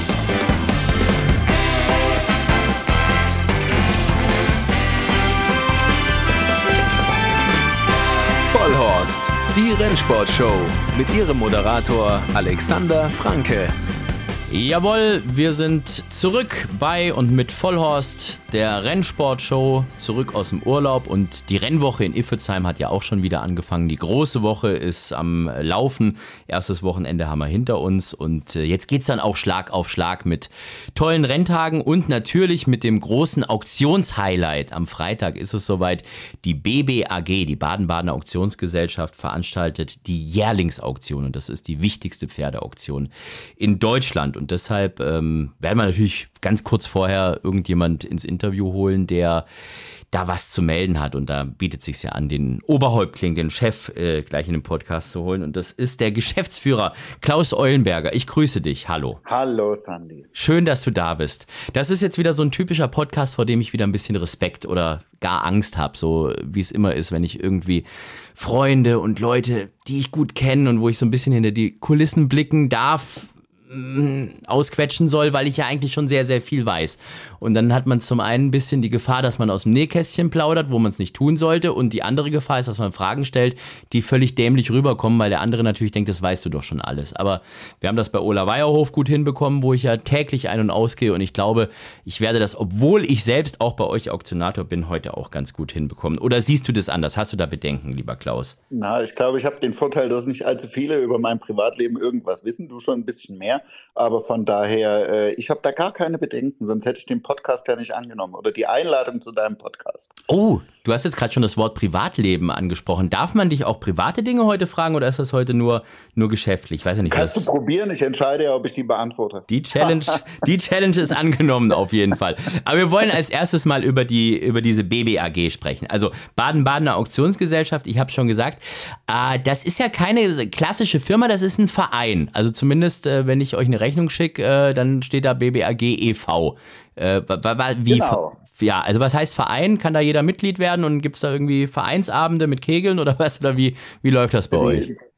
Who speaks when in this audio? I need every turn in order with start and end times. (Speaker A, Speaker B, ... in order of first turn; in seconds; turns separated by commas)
Speaker A: 8.4-13.7, Speaker B: 14.5-49.5, Speaker B: 50.1-59.2, Speaker C: 59.2-60.3, Speaker B: 60.3-98.5, Speaker C: 98.7-110.1, Speaker B: 110.3-117.5, Speaker C: 117.1-120.4, Speaker B: 119.5-144.9, Speaker C: 137.9-138.4, Speaker C: 144.5-144.9